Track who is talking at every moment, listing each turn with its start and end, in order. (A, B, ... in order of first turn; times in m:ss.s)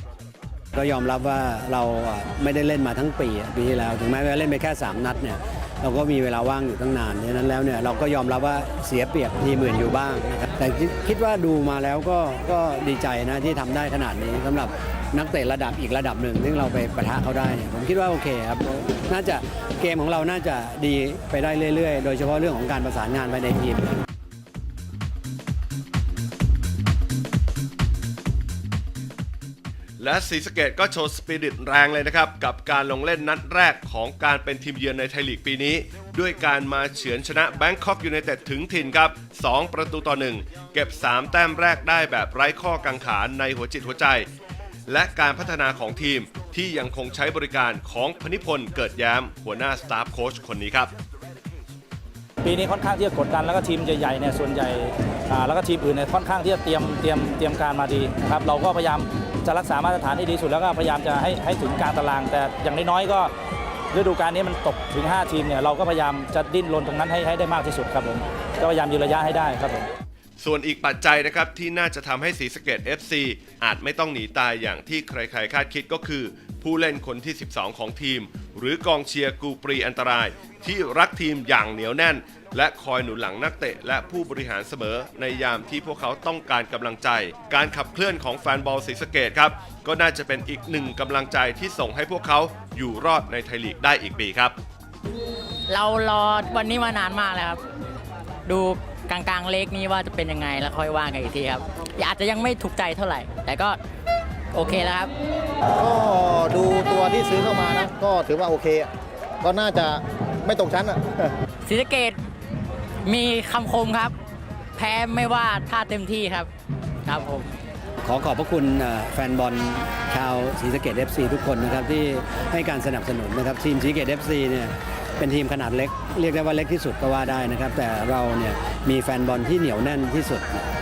0:00.7-0:24.0 A
0:30.0-0:44.3 B
0:44.9-0:51.0 B
0:52.4-1:03.3 C
1:03.9-1:09.9 C
1:10.4-1:34.6 B
1:35.7-1:37.6 D
1:38.5-1:43.8 D
1:44.5-1:45.1 D
1:45.8-1:48.9 E
1:49.4-1:51.3 E
1:51.6-1:52.2 D
1:53.0-1:54.2 D
1:54.8-1:56.5 D
1:57.1-1:57.5 D
1:58.0-2:10.6 A